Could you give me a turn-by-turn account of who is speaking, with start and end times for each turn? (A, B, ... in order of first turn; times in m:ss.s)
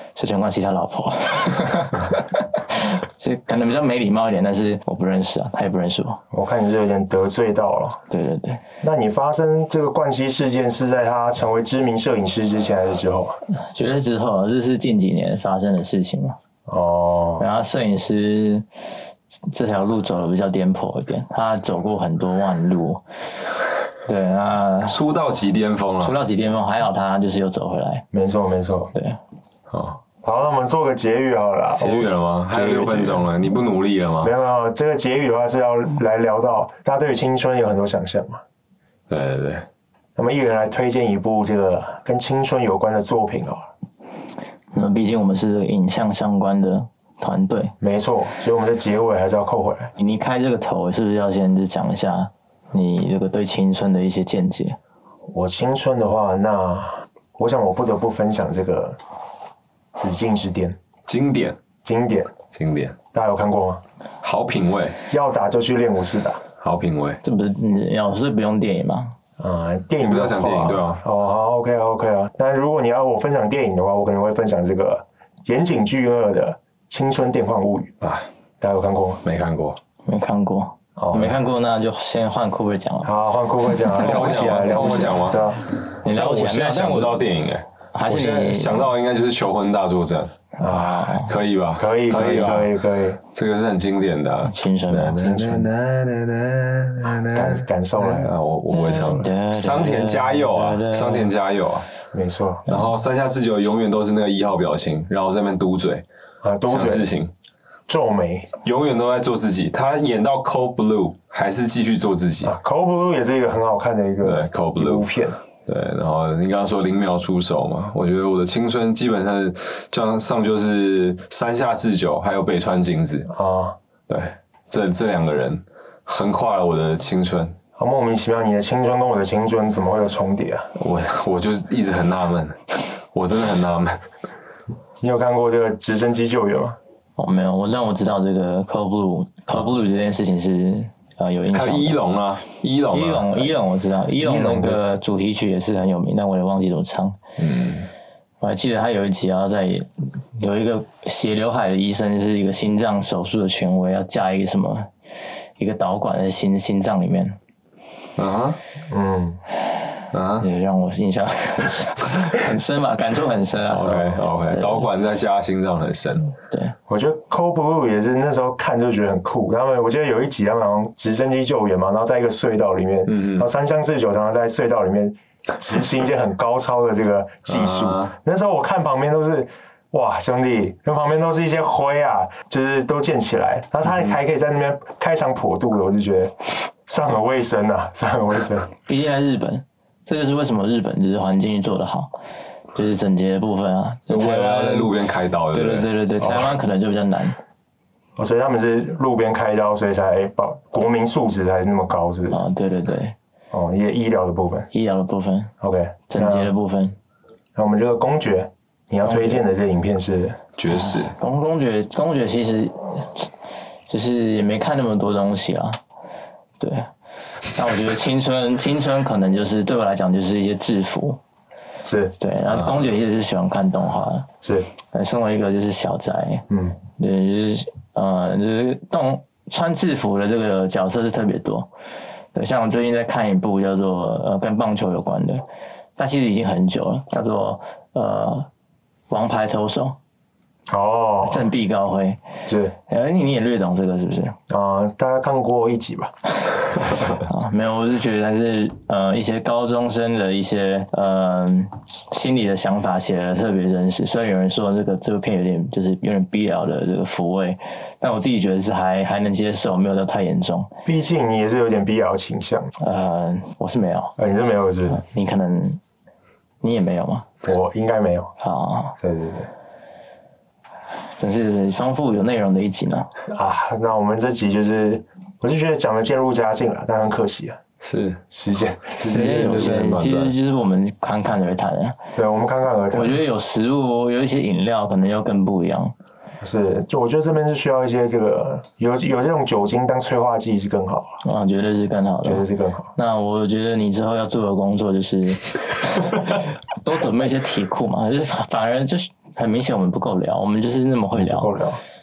0:00.2-0:06.2 A
0:06.3-0:08.0 B
0:08.1-0:08.6 A
0:08.8-0:13.4 B
0:13.5-0:16.4 A
0:16.7-0:17.5 B
0:17.4-0:18.7 A
0:19.5-0:23.0 A
0:24.0-0:25.0 A
0:24.8-0:26.2 C
0:26.0-0:28.1 A
0:28.1-0:28.9 B
0:28.9-0:29.2 A
0:29.7-0:30.0 C
0:30.2-0:33.3 B
0:31.8-0:34.3 C
0:34.2-0:38.4 B
0:39.1-0:39.6 C
0:40.2-0:43.7 B
0:44.7-0:47.7 A
0:47.8-0:49.9 B
0:50.0-0:54.8 A
0:55.3-0:59.0 B
0:59.9-1:00.8 B
1:01.1-1:01.6 C
1:01.8-1:02.3 B
1:02.5-1:03.0 C
1:03.1-1:03.8 B
1:04.2-1:05.0 C
1:05.1-1:06.4 B
1:06.6-1:07.2 C
1:07.2-1:09.1 A
1:09.4-1:17.9 B
1:10.0-1:11.0 C
1:18.0-1:18.3 C
1:18.6-1:19.2 B
1:19.2-1:19.8 C
1:20.1-1:23.2 A
1:21.0-1:21.3 B
1:23.0-1:25.6 B
1:23.8-1:25.2 A
1:24.0-1:25.4 C
1:26.0-1:27.3 A
1:26.0-1:30.3 C
1:27.9-1:28.9 A
1:30.6-1:31.3 A
1:30.6-1:31.2 B
1:31.2-1:32.8 C
1:31.8-1:33.2 B
1:33.3-1:41.9 C
1:34.4-1:35.2 A
1:35.2-1:35.7 B
1:37.3-1:38.3 B
1:38.7-1:41.3 A
1:42.1-1:42.6 B
1:42.7-1:46.0 C
1:42.7-1:43.0 A
1:46.4-1:47.1 B
1:46.7-1:47.3 C
1:47.9-1:48.5 B
1:48.6-1:52.6 C
1:52.4-1:55.4 B
1:54.2-1:55.1 C
1:55.6-2:03.3 C
2:03.3-2:03.8 B
2:04.1-2:07.6 C
2:07.8-2:10.7 B
2:10.8-2:14.0 C
2:15.0-2:16.8 B
2:17.2-2:22.0 A
2:21.5-2:23.6 C
2:22.9-2:27.2 A
2:24.2-2:24.9 B
2:27.4-2:27.9 C
2:28.4-2:34.9 A
2:35.6-2:37.4 A
2:38.2-2:38.6 C
2:38.9-2:39.4 B
2:40.1-2:40.5 C
2:40.4-2:44.9 A
2:43.7-2:46.3 C
2:46.5-2:46.8 A
2:46.9-3:08.7 B
2:53.1-2:53.5 C
2:57.5-2:58.1 C
3:03.9-3:04.1 C
3:08.9-3:12.1 A
3:12.7-3:14.9 A
3:14.1-3:15.9 C
3:15.5-3:17.4 A
3:16.2-3:16.6 B
3:18.2-3:22.4 B
3:22.3-3:23.2 A
3:23.5-3:24.7 B
3:24.7-3:25.5 A
3:25.6-3:26.5 B
3:26.1-3:27.0 A
3:27.6-3:30.4 B
3:29.0-3:29.5 A
3:30.6-3:31.2 C
3:30.7-3:33.3 A
3:33.9-3:35.8 A
3:36.6-3:36.9 A
3:37.5-3:41.2 A
3:41.8-3:42.2 B
3:42.2-3:44.3 A
3:42.5-3:42.8 C
3:44.4-3:44.7 B
3:44.9-3:51.7 A
3:46.5-3:46.8 B
3:52.3-3:55.4 A
3:56.0-3:58.5 A
3:59.1-4:00.0 A
4:00.7-4:01.5 B
4:01.2-4:02.2 A
4:02.4-4:02.8 B
4:02.9-4:04.4 A
4:04.5-4:06.1 B
4:07.0-4:20.7 A
4:20.8-4:22.7 B
4:22.8-4:24.1 A
4:24.2-4:25.0 B
4:24.9-4:25.8 A
4:26.6-4:27.3 A
4:27.4-4:28.3 B
4:28.4-4:29.0 A
4:29.0-4:29.5 B
4:31.2-4:33.1 A
4:33.3-4:37.6 B
4:37.8-4:38.2 C
4:38.3-4:39.7 B
4:38.9-4:40.4 C
4:39.0-4:42.0 A
4:42.2-4:43.2 B
4:42.9-4:45.9 A
4:46.4-4:51.2 B
4:51.2-5:01.5 A
4:52.2-4:52.9 B
5:01.2-5:01.8 B